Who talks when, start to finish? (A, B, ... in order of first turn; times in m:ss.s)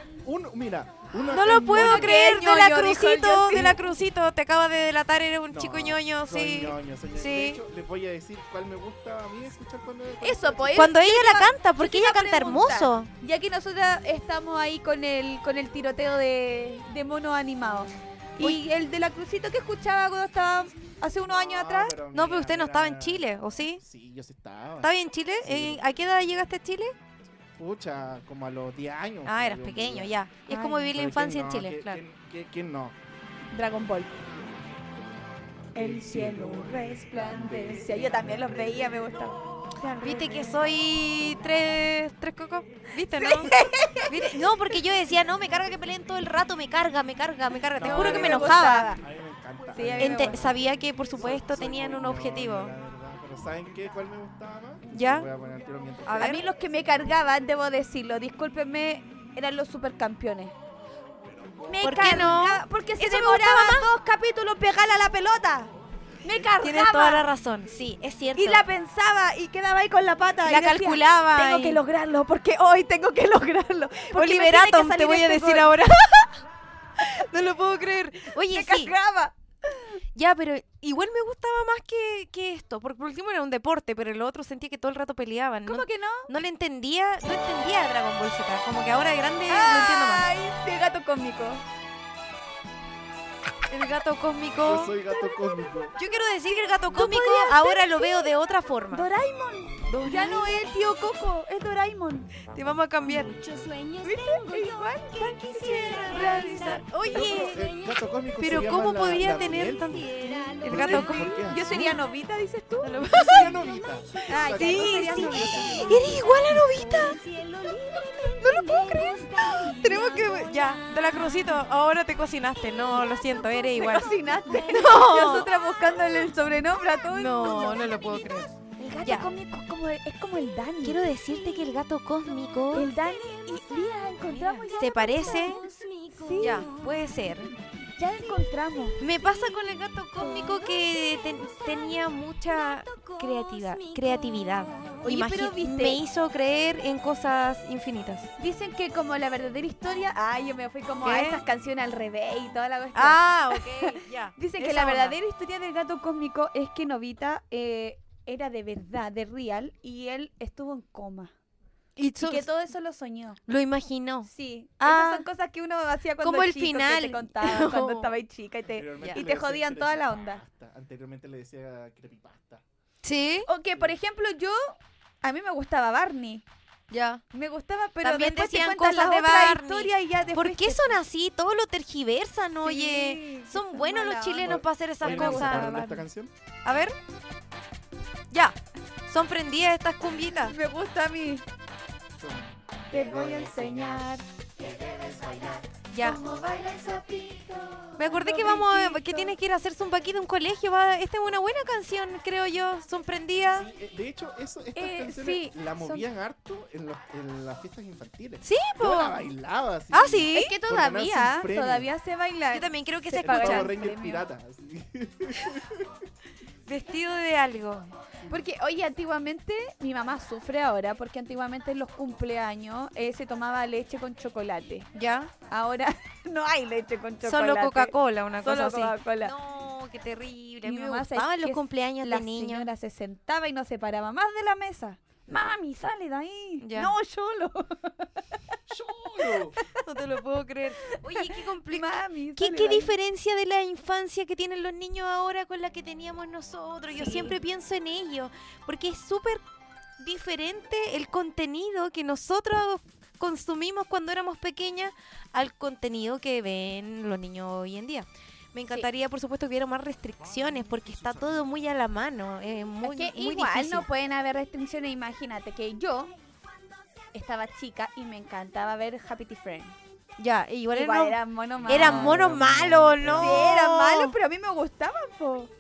0:00.2-0:02.2 A
0:01.3-0:07.6 B
0:01.4-0:03.8 C
0:05.5-0:10.9 A
0:10.2-0:22.0 C
0:10.7-0:13.1 B
0:21.2-0:25.8 A
0:22.1-0:23.8 B
0:24.8-0:26.9 B
0:27.6-0:30.1 A
0:29.2-0:32.0 B
0:30.5-0:30.9 C
0:30.9-0:33.0 A
0:33.5-0:34.2 C
0:35.7-0:38.8 A
0:35.8-0:40.7 C
0:40.0-0:49.0 B
0:43.2-0:44.4 C
0:47.8-0:56.4 A
0:47.8-0:49.0 C
0:49.7-0:50.5 C
0:50.0-0:52.7 B
0:54.9-0:55.3 B
0:56.1-0:56.4 B
0:56.2-1:00.5 C
1:01.7-1:05.7 C
1:01.8-1:03.9 B
1:06.2-1:07.3 C
1:06.6-1:08.6 B
1:08.4-1:16.3 C
1:10.4-1:11.8 B
1:14.1-1:16.4 B
1:17.0-1:18.9 B
1:18.4-1:20.0 C
1:20.2-1:30.3 B
1:25.7-1:26.3 C
1:29.5-1:31.6 C
1:33.7-1:34.9 B
1:34.6-1:36.0 A
1:36.0-1:39.1 B
1:36.5-1:38.3 C
1:38.9-1:42.3 C
1:39.9-1:40.7 B
1:42.4-1:43.4 B
1:43.4-1:47.3 C
1:43.4-1:43.7 A
1:45.4-1:47.7 B
1:47.0-1:52.0 A
1:48.4-1:51.4 B
1:50.2-1:53.5 C
1:52.8-1:53.6 B
1:53.1-1:56.2 A
1:54.3-2:00.3 C
1:54.4-1:57.2 B
1:58.4-2:05.5 B
2:03.3-2:11.0 C
2:07.1-2:08.5 B
2:10.8-2:12.9 B
2:12.7-2:16.7 C
2:14.3-2:15.7 B
2:16.4-2:17.5 B
2:18.0-2:19.1 C
2:19.0-2:28.3 B
2:20.2-2:20.6 C
2:25.0-2:26.0 C
2:28.4-2:41.3 C
2:31.0-2:31.4 B
2:33.0-2:35.2 B
2:42.0-2:42.5 B
2:42.2-2:43.4 C
2:43.5-2:45.3 B
2:44.3-2:50.4 C
2:46.2-2:48.1 B
2:48.7-2:52.6 A
2:53.0-2:53.5 B
2:53.5-2:56.4 C
2:56.9-2:57.2 B
2:57.3-3:01.0 C
2:58.0-3:06.0 B
3:02.6-3:05.8 C
3:04.4-3:06.3 A
3:06.6-3:07.0 B
3:08.3-3:08.6 B
3:09.1-3:10.6 B
3:10.5-3:11.4 C
3:12.2-3:15.7 A
3:12.9-3:14.2 C
3:15.9-3:16.2 B
3:15.9-3:19.4 C
3:18.0-3:23.7 B
3:23.5-3:31.9 A
3:24.8-3:26.0 C
3:28.4-3:29.3 B
3:29.9-3:30.5 B
3:30.3-3:34.3 C
3:32.5-3:33.7 B
3:33.2-3:36.0 A
3:36.7-3:37.9 B
3:38.3-3:44.9 C
3:45.0-3:45.3 B
3:45.5-3:49.3 C
3:47.2-3:52.7 B
3:50.6-3:58.1 C
3:56.6-3:56.9 B
3:58.7-3:59.6 A
3:59.3-3:59.8 C
3:59.8-4:09.4 B
4:00.9-4:02.9 C
4:06.9-4:07.4 C
4:10.0-4:23.9 B
4:22.8-4:26.1 C
4:27.1-4:29.8 C
4:30.2-4:34.2 B
4:30.7-4:32.2 C
4:31.6-4:33.4 A
4:33.1-4:35.5 C